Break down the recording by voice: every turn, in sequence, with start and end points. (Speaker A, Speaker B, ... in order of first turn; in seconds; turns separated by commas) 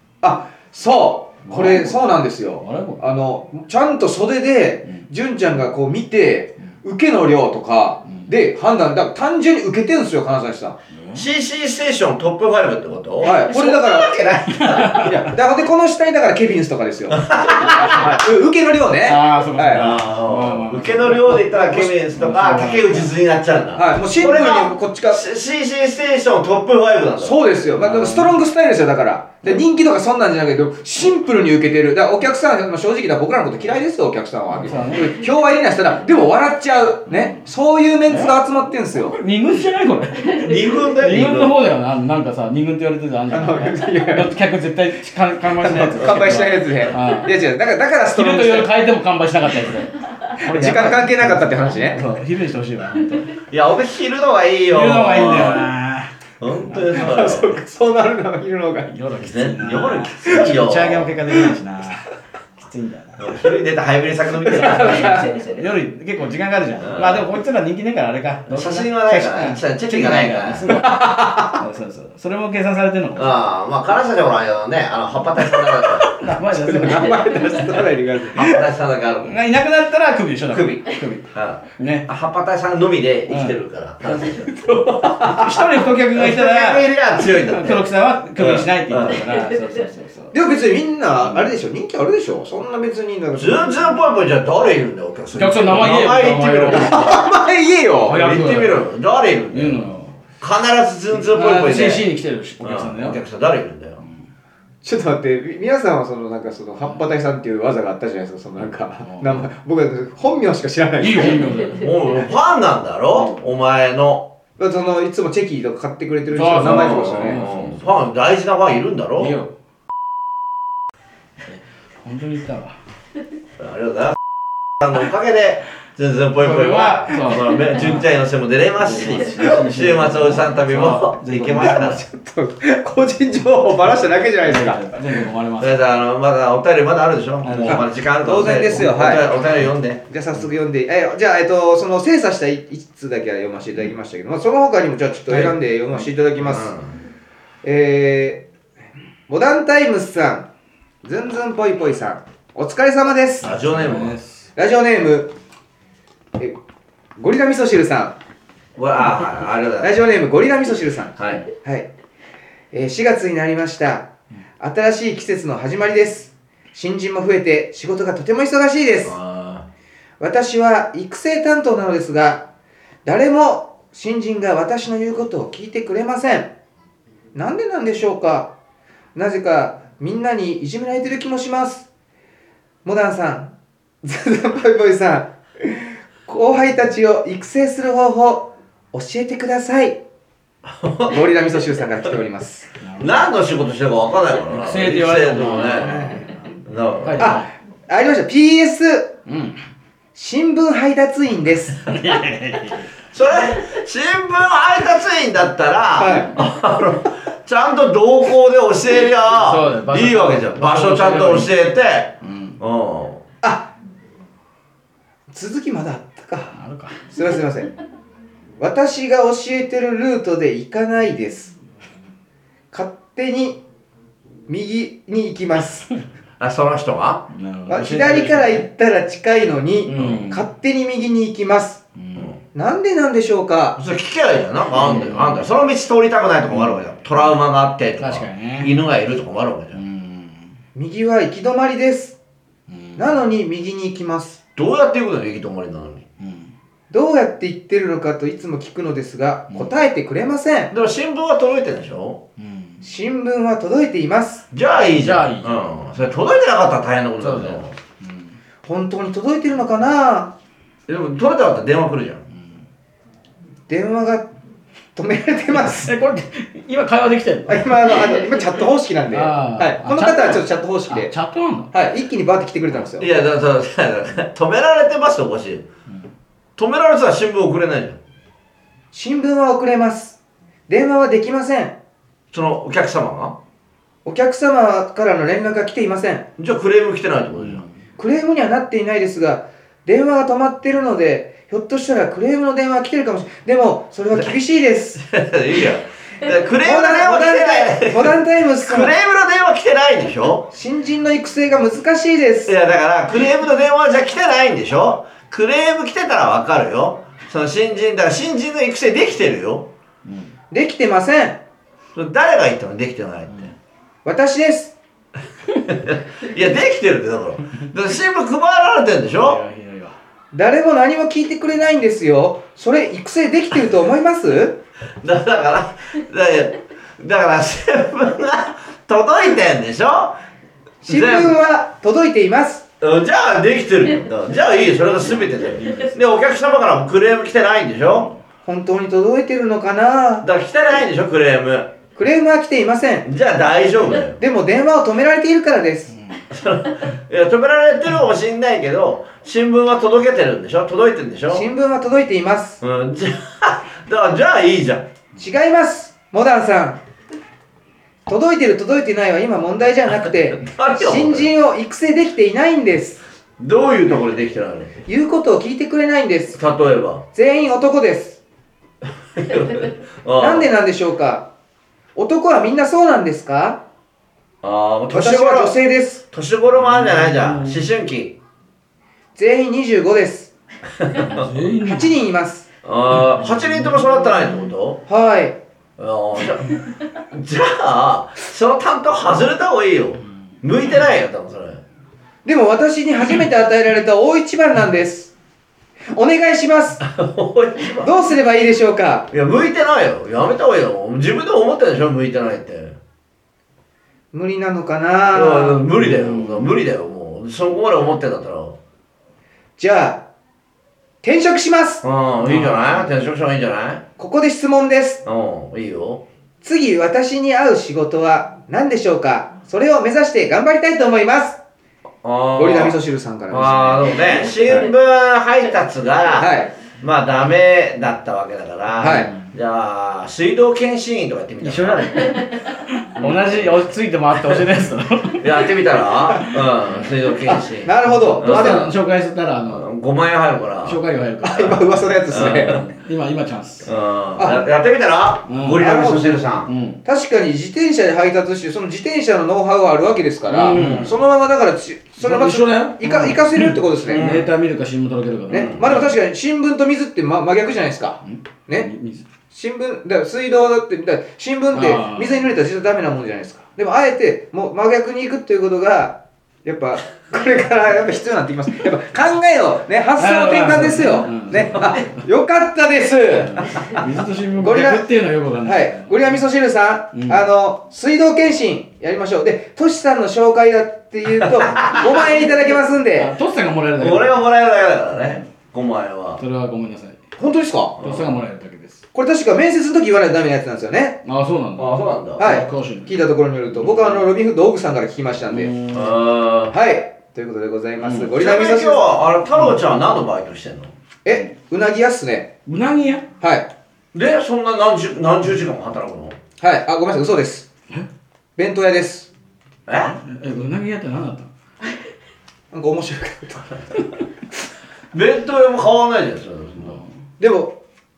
Speaker A: 0.2-10.8, Speaker B: 1.4-2.0, Speaker B: 2.6-3.0, Speaker B: 10.9-11.3, Speaker C: 11.1-15.1, Speaker A: 13.2-14.2, Speaker B: 14.5-15.1, Speaker A: 14.9-20.0, Speaker C: 17.3-18.0, Speaker B: 19.0-23.1, Speaker C: 19.7-27.4, Speaker A: 23.8-25.2, Speaker A: 27.2-39.2, Speaker B: 27.8-28.4, Speaker B: 34.5-35.1, Speaker B: 37.1-37.4, Speaker B: 38.1-38.4, Speaker B: 38.9-47.3, Speaker C: 40.4-41.6, Speaker A: 43.3-44.4, Speaker A: 45.6-48.7, Speaker B: 48.1-53.4, Speaker A: 50.5-52.0, Speaker C: 53.5-55.7, Speaker B: 54.7-56.1, Speaker C: 56.4-57.6, Speaker A: 56.9-58.9, Speaker B: 58.9-63.3, Speaker C: 59.2-61.1, Speaker C: 63.2-65.3, Speaker A: 64.5-65.4, Speaker B: 64.6-73.4, Speaker C: 66.8-67.3, Speaker C: 68.5-70.7, Speaker A: 70.7-71.6, Speaker C: 73.2-76.1, Speaker B: 76.2-77.7, Speaker A: 76.4-78.6, Speaker C: 78.3-79.3, Speaker B: 79.2-82.1, Speaker C: 80.5-84.5, Speaker B: 83.3-83.6, Speaker A: 84.3-85.8, Speaker B: 85.2-90.3, Speaker C: 86.1-89.2, Speaker A: 90.3-93.8, Speaker B: 91.2-91.5, Speaker C: 93.3-97.2, Speaker B: 95.3-97.0, Speaker A: 96.7-98.2, Speaker B: 98.1-98.8, Speaker C: 98.1-99.8, Speaker B: 99.5-100.1, Speaker C: 100.4-102.1, Speaker B: 101.3-103.2, Speaker C: 102.6-104.0, Speaker A: 104.8-111.5, Speaker B: 109.0-109.5, Speaker B: 111.0-111.9, Speaker C: 111.8-114.3, Speaker A: 114.6-117.4, Speaker B: 116.3-117.9, Speaker C: 116.6-119.3, Speaker B: 119.2-119.5, Speaker B: 121.5-122.8, Speaker C: 123.6-124.2, Speaker C: 124.8-132.0, Speaker B: 126.4-128.1, Speaker B: 128.8-131.8, Speaker A: 131.5-134.9, Speaker B: 134.4-135.9, Speaker C: 135.6-140.0, Speaker B: 137.4-137.8, Speaker A: 137.7-139.3, Speaker A: 140.1-146.8, Speaker C: 145.3-145.5, Speaker C: 146.5-146.9, Speaker A: 147.6-148.5, Speaker A: 149.3-150.5, Speaker A: 151.0-153.5, Speaker C: 153.4-154.2, Speaker B: 153.4-154.5, Speaker A: 154.6-155.3, Speaker A: 157.2-158.2, Speaker C: 158.8-160.0, Speaker A: 159.8-161.9, Speaker C: 161.2-161.4, Speaker A: 162.7-169.2, Speaker C: 169.0-169.7, Speaker A: 170.2-172.5, Speaker A: 173.1-176.5, Speaker A: 177.3-178.5, Speaker A: 179.2-181.9, Speaker A: 182.8-190.0, Speaker C: 190.7-191.3, Speaker A: 191.1-192.7, Speaker B: 192.8-193.2, Speaker C: 193.0-197.4, Speaker B: 194.5-196.3, Speaker B: 197.0-197.5, Speaker A: 197.2-199.2, Speaker B: 199.3-199.6, Speaker A: 200.2-201.8, Speaker B: 201.9-202.9, Speaker C: 203.1-213.2, Speaker A: 206.0-206.3, Speaker B: 209.3-211.5, Speaker B: 212.2-212.6, Speaker A: 213.4-213.7, Speaker A: 215.3-216.6, Speaker B: 216.5-217.0, Speaker A: 217.1-217.7, Speaker A: 218.6-221.6, Speaker A: 222.7-223.6, Speaker A: 224.5-225.9, Speaker C: 226.4-227.3, Speaker B: 227.3-228.7, Speaker A: 227.7-231.8, Speaker B: 229.9-230.5, Speaker B: 232.0-232.3, Speaker A: 232.5-233.8, Speaker C: 233.8-239.8, Speaker B: 234.7-235.4, Speaker B: 236.5-236.8, Speaker B: 238.0-238.8, Speaker B: 239.7-240.6, Speaker A: 240.8-242.2, Speaker B: 242.7-243.1, Speaker A: 243.0-244.4, Speaker C: 244.6-246.1, Speaker B: 246.2-246.5, Speaker A: 246.9-250.7, Speaker C: 250.7-252.2, Speaker B: 252.4-252.8, Speaker A: 252.8-254.5, Speaker C: 254.5-257.8, Speaker B: 254.9-255.7, Speaker B: 257.2-258.4, Speaker A: 258.6-260.3, Speaker C: 260.9-262.2, Speaker A: 263.7-264.3, Speaker A: 265.0-265.9, Speaker B: 265.6-267.9, Speaker A: 267.5-271.1, Speaker B: 269.1-271.7, Speaker A: 271.7-273.1, Speaker C: 273.0-275.7, Speaker C: 276.6-278.0, Speaker A: 278.9-281.8, Speaker C: 282.3-283.4, Speaker A: 284.1-286.3, Speaker C: 286.4-287.6, Speaker B: 287.4-287.8, Speaker A: 288.0-295.0, Speaker C: 295.0-300.5, Speaker A: 296.6-298.9, Speaker A: 300.5-302.5, Speaker C: 302.5-309.7, Speaker B: 310.1-310.3, Speaker A: 310.5-311.4, Speaker C: 311.9-313.5, Speaker A: 314.1-314.8, Speaker C: 315.7-319.4, Speaker B: 319.1-319.9, Speaker A: 320.3-324.6, Speaker C: 325.0-330.2, Speaker A: 330.8-332.7, Speaker C: 330.9-331.4, Speaker C: 332.8-338.1, Speaker B: 335.1-335.9, Speaker A: 338.4-340.3, Speaker C: 340.2-341.7, Speaker A: 342.0-343.1, Speaker C: 343.1-344.2, Speaker A: 344.2-345.9, Speaker C: 346.3-351.5, Speaker A: 351.3-352.6, Speaker C: 352.6-354.9, Speaker A: 355.2-356.8, Speaker A: 358.1-363.0, Speaker C: 360.4-361.3, Speaker C: 363.4-364.8, Speaker A: 364.9-366.4, Speaker C: 366.4-367.0, Speaker A: 367.1-368.2, Speaker C: 369.2-370.5, Speaker A: 370.2-371.3, Speaker A: 371.9-373.6, Speaker C: 374.4-375.6, Speaker A: 374.9-376.1, Speaker C: 376.1-378.2, Speaker B: 376.6-377.6, Speaker A: 379.2-380.3, Speaker C: 380.8-381.3, Speaker B: 381.1-381.9, Speaker A: 381.6-382.5, Speaker C: 382.6-384.8, Speaker B: 383.2-383.8, Speaker A: 384.9-385.4, Speaker C: 385.8-391.6, Speaker A: 392.2-395.1, Speaker A: 395.9-396.9, Speaker C: 396.8-397.9, Speaker A: 397.8-399.1, Speaker C: 399.1-402.8, Speaker A: 404.1-405.7, Speaker C: 405.1-408.6, Speaker B: 405.8-406.5, Speaker A: 409.6-410.1, Speaker A: 411.0-411.8, Speaker C: 411.8-413.8, Speaker B: 412.2-412.9, Speaker A: 414.0-415.0, Speaker C: 415.1-416.0, Speaker A: 416.4-421.4, Speaker C: 422.0-422.8, Speaker A: 422.4-424.7, Speaker C: 423.3-432.0, Speaker A: 426.2-426.5, Speaker A: 428.8-429.1, Speaker B: 431.4-435.5, Speaker C: 433.0-433.7, Speaker C: 435.2-438.7, Speaker A: 437.2-438.7, Speaker B: 437.9-439.7, Speaker C: 439.5-440.8, Speaker B: 440.6-443.7, Speaker A: 441.2-442.6, Speaker C: 442.1-442.6, Speaker C: 443.6-446.5, Speaker A: 444.2-444.4, Speaker B: 445.3-445.6, Speaker A: 445.6-454.1, Speaker B: 446.5-446.8, Speaker B: 450.3-450.9, Speaker C: 450.5-451.0, Speaker B: 452.0-455.9, Speaker C: 453.9-454.3, Speaker A: 455.3-458.7, Speaker C: 455.3-455.7, Speaker B: 458.0-459.1, Speaker A: 459.3-473.6, Speaker B: 461.5-462.3, Speaker B: 470.0-472.0, Speaker B: 473.1-476.2, Speaker A: 474.4-474.9, Speaker A: 475.4-483.1, Speaker B: 476.9-477.2, Speaker C: 481.2-482.1, Speaker B: 483.0-484.2, Speaker C: 483.8-486.2, Speaker B: 485.0-485.3, Speaker B: 486.2-487.0, Speaker A: 487.2-487.8, Speaker C: 487.8-488.1, Speaker B: 487.8-488.8, Speaker A: 488.9-491.0, Speaker B: 491.1-493.0, Speaker C: 491.6-492.2, Speaker A: 492.2-495.5, Speaker B: 493.5-494.1, Speaker B: 495.3-495.9, Speaker C: 495.7-496.6, Speaker A: 496.5-498.9, Speaker B: 497.8-498.1, Speaker C: 498.1-500.7, Speaker A: 501.1-502.3, Speaker B: 502.5-503.1, Speaker A: 503.2-503.5, Speaker C: 503.9-506.2, Speaker A: 506.4-507.5, Speaker A: 508.4-509.1, Speaker C: 509.7-510.0, Speaker B: 509.9-511.3, Speaker A: 512.5-513.6, Speaker C: 514.9-516.8, Speaker B: 516.6-516.9, Speaker A: 517.2-517.6